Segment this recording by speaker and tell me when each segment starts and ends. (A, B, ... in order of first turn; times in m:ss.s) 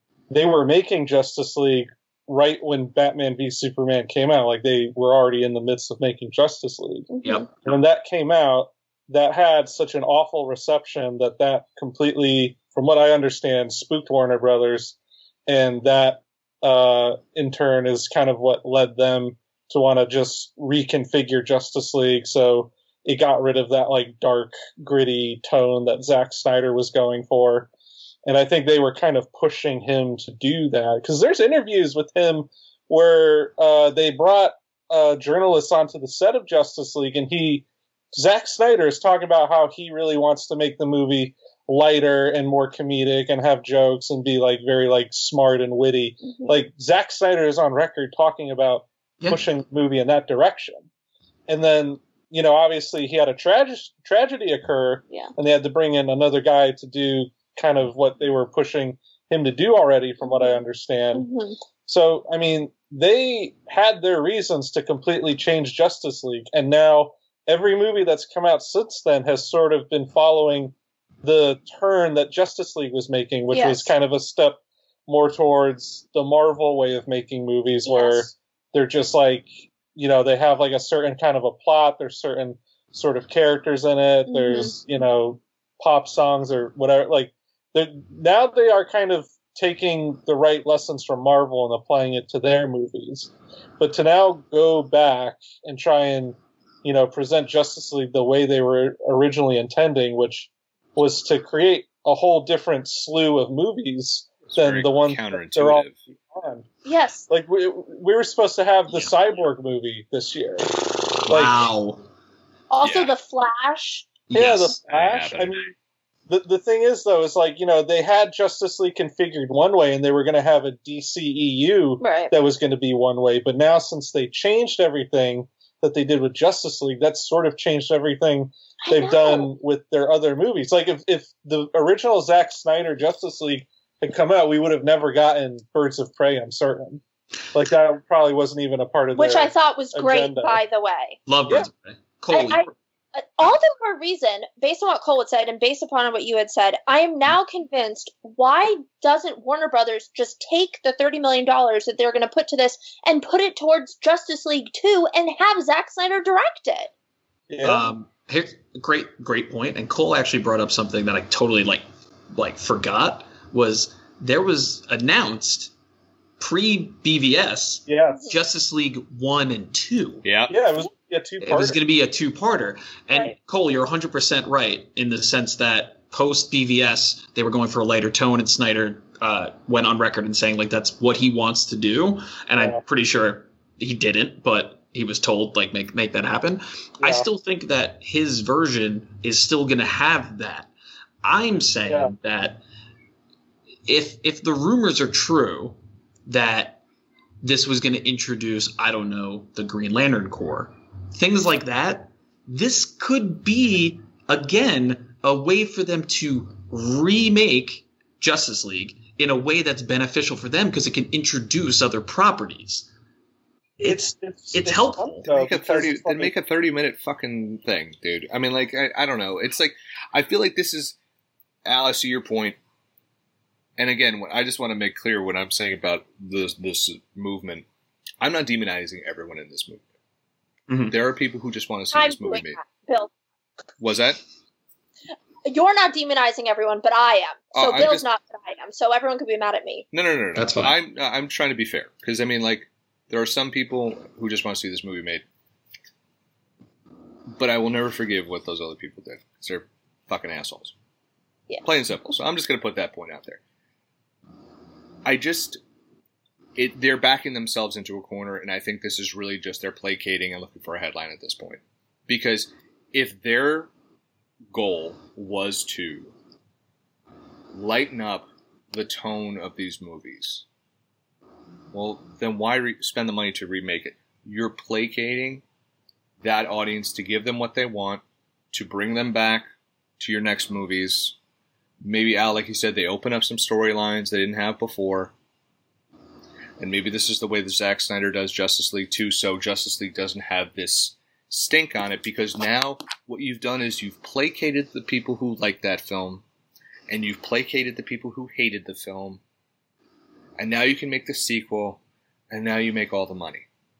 0:00.3-0:15.0 A
0:07.1-0:07.4 B
0:15.5-0:27.7 A
0:28.2-0:50.8 A
0:51.5-1:01.3 A
1:00.2-1:00.6 B
1:01.1-1:01.6 B
1:01.9-1:46.6 A
1:13.5-1:13.9 B
1:17.8-1:18.3 B
1:24.3-1:24.7 B
1:44.5-1:45.9 C
1:46.8-1:47.3 B
1:47.3-1:51.6 A
1:51.2-1:52.0 D
1:52.7-1:54.1 B
1:52.8-1:53.1 C
1:54.3-1:54.8 D
1:54.3-1:55.7 A
1:54.7-1:55.7 C
1:56.3-2:17.0 A
2:02.0-2:02.3 B
2:08.8-2:09.5 B
2:17.5-2:20.6 A
2:19.1-2:21.2 B
2:21.2-2:22.7 D
2:22.3-2:36.9 B
2:37.5-2:37.9 A
2:37.6-2:45.7 D
2:46.4-2:50.2 D
2:47.9-2:48.2 A
2:50.2-2:50.5 C
2:50.5-2:51.8 A
2:51.4-3:10.7 D
3:07.0-3:07.3 A
3:11.2-3:12.6 D
3:11.9-3:12.1 A
3:13.8-3:16.8 D
3:17.4-3:32.9 D
3:33.8-3:35.3 D
3:33.8-3:36.3 A
3:35.3-3:41.0 C
3:41.6-3:42.6 C
3:43.8-3:47.6 C
3:48.2-3:49.8 C
3:50.7-3:51.0 D
3:50.9-3:52.6 C
3:51.9-3:53.1 B
3:53.8-3:54.2 C
3:55.4-3:59.8 B
3:57.5-3:58.0 C
3:59.9-4:05.2 C
4:00.3-4:00.7 D
4:07.4-4:10.7 C
4:11.6-4:13.4 C
4:15.0-4:15.6 C
4:16.6-4:23.7 C
4:24.5-4:26.1 C
4:27.5-4:30.4 C
4:31.7-4:35.4 C
4:36.2-4:39.4 C
4:40.0-4:41.1 C
4:41.8-4:45.1 C
4:46.6-4:56.2 C
4:56.9-4:59.2 C
5:00.4-5:01.8 C
5:02.3-5:03.4 C